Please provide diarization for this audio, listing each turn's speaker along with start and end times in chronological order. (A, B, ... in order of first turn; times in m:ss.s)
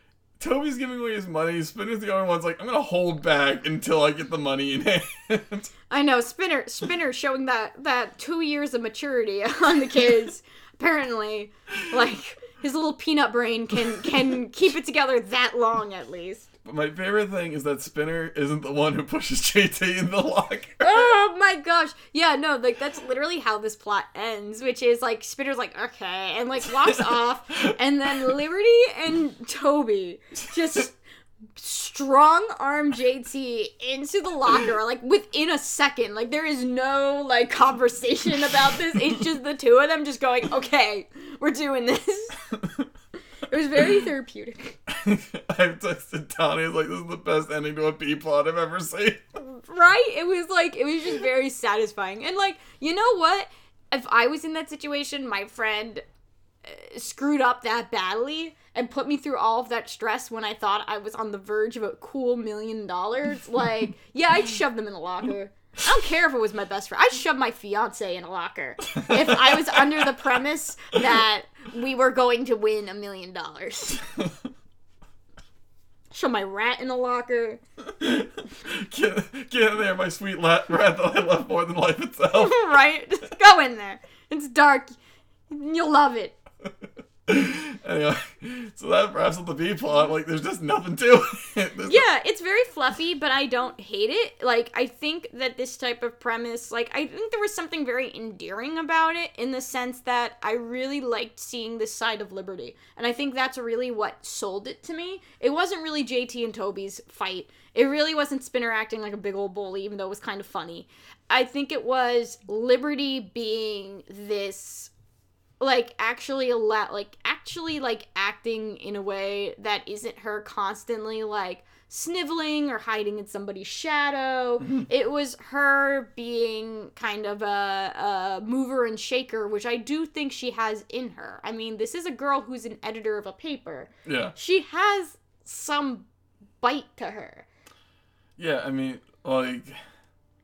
0:00.4-0:05.7 A
0:05.9-0:16.5 B
0:16.6-0:21.1 A
0:20.8-0:31.0 B
0:31.6-0:42.4 B
0:43.5-0:44.8 B
0:44.9-0:49.2 A
0:49.4-0:56.0 B
0:56.6-1:14.0 B
1:09.0-1:10.1 A
1:16.1-1:17.6 B
1:18.0-1:22.6 A
1:22.3-1:24.9 B
1:25.5-1:26.4 B
1:27.2-1:32.0 A
1:31.9-1:54.9 B
1:55.6-2:16.1 B
2:04.6-2:04.9 A
2:14.0-2:14.3 A
2:16.6-2:17.5 B
2:18.4-2:19.8 A